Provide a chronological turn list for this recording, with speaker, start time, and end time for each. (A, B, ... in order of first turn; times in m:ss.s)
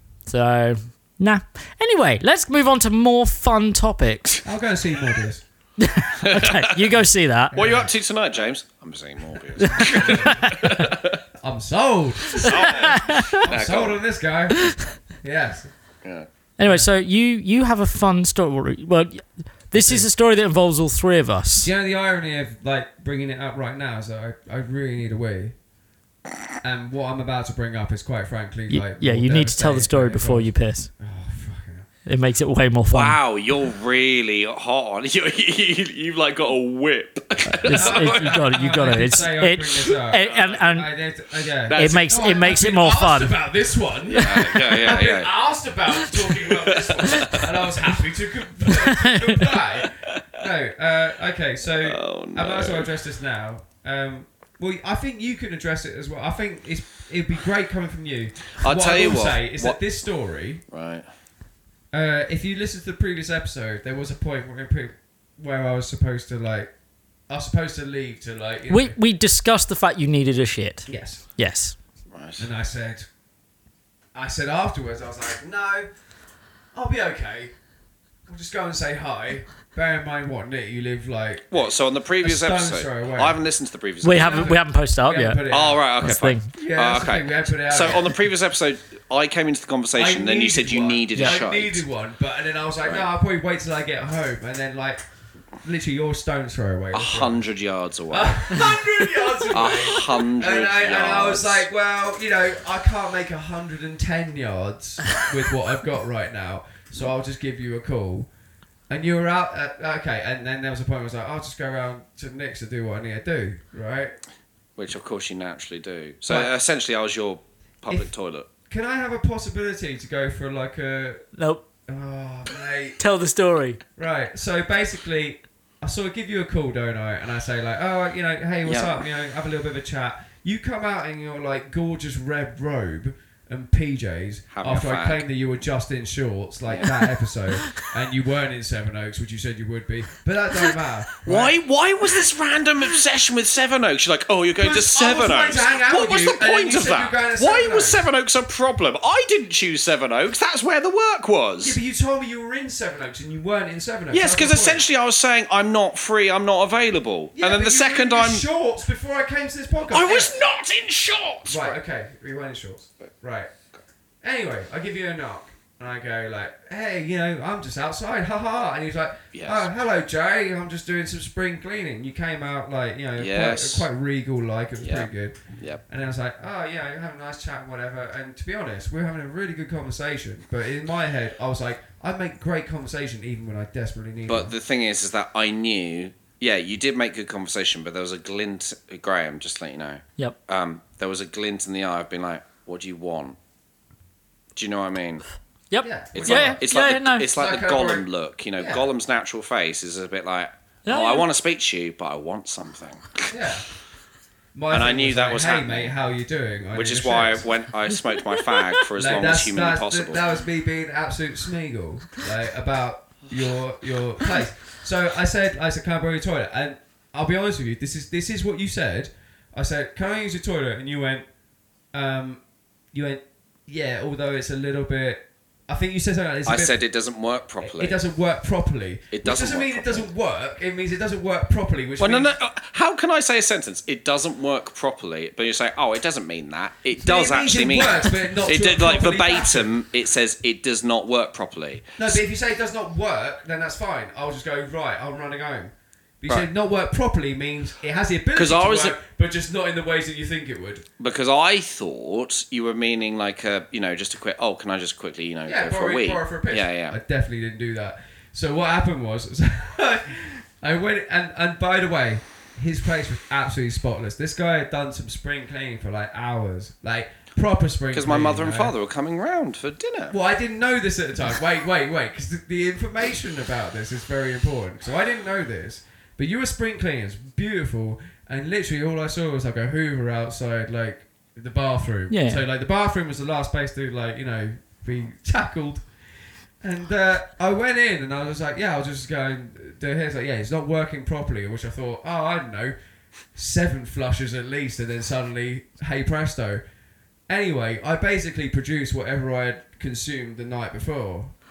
0:00.3-0:04.4 A
0:04.4-0:05.4 B
0:05.8-0:07.6 A
0:06.2-0:06.9 C
0:07.5-0:07.9 B
0:07.5-0:11.2 C
0:09.6-0:10.6 B
0:09.6-0:10.9 A
0:11.4-0:15.7 B
0:12.4-0:14.0 C
0:12.4-0:13.4 A
0:16.6-0:21.7 A
0:19.8-0:20.1 B
0:21.6-0:25.6 B
0:26.6-0:31.9 B
0:28.7-0:30.9 A
0:32.1-0:33.2 A
0:32.9-0:38.5 C
0:37.4-0:40.9 A
0:37.7-1:00.6 B
0:40.1-0:40.6 C
0:41.7-0:42.2 C
0:41.8-0:43.4 A
0:44.1-0:44.6 A
0:44.1-0:45.3 C
0:46.1-0:47.7 C
0:48.7-0:49.5 A
0:51.7-0:52.9 C
0:58.6-0:59.8 C
1:00.7-1:01.0 C
1:01.9-1:06.7 B
1:07.3-1:09.0 B
1:08.7-1:11.8 A
1:10.9-1:11.2 B
1:12.1-1:12.5 C
1:12.4-1:13.1 B
1:14.1-1:15.9 B
1:16.7-1:17.5 B
1:18.3-1:23.4 B
1:21.5-1:24.5 C
1:24.0-1:25.4 A
1:24.1-1:25.8 B
1:25.5-1:31.8 C
1:26.0-1:26.5 A
1:26.5-1:28.1 B
1:30.0-1:35.0 B
1:35.6-1:37.4 B
1:36.9-1:38.7 C
1:38.1-1:48.3 B
1:39.5-1:41.6 C
1:48.9-1:54.1 B
1:54.8-1:58.5 C
1:58.7-2:01.2 B
2:01.4-2:01.6 A
2:01.9-2:03.0 B
2:03.0-2:03.8 A
2:04.0-2:21.6 B
2:08.6-2:09.0 C
2:14.5-2:15.2 C
2:16.7-2:17.0 C
2:21.2-2:31.8 C
2:24.6-2:28.0 B
2:31.6-2:34.8 B
2:34.1-2:38.4 C
2:37.4-2:40.4 B
2:39.9-2:41.8 C
2:41.5-2:43.5 B
2:44.2-3:04.5 B
2:49.3-2:49.7 C
2:53.2-2:53.9 C
2:54.8-2:55.8 C
3:04.3-3:13.4 C
3:14.6-3:15.2 C
3:15.7-3:17.3 A
3:15.8-3:16.6 B
3:16.1-3:23.3 C
3:17.3-3:18.0 B
3:18.6-3:18.9 B
3:20.9-3:21.2 A
3:23.3-3:23.6 B
3:24.6-3:27.5 B
3:24.7-3:25.9 C
3:26.7-3:30.2 C
3:28.4-3:28.8 A
3:29.0-3:41.3 B
3:41.9-3:42.4 B
3:42.9-3:46.8 B
3:46.4-3:48.0 C
3:47.6-3:52.4 B
3:49.1-3:50.1 C
3:52.0-4:02.1 C
3:57.0-3:59.7 B
4:02.0-4:10.8 B
4:08.4-4:09.0 C
4:11.0-4:17.0 C
4:15.4-4:28.7 B
4:27.9-4:30.2 C
4:30.1-4:45.9 B
4:42.1-4:42.4 A
4:46.6-4:52.8 B
4:53.4-4:56.6 B
4:57.3-5:01.3 B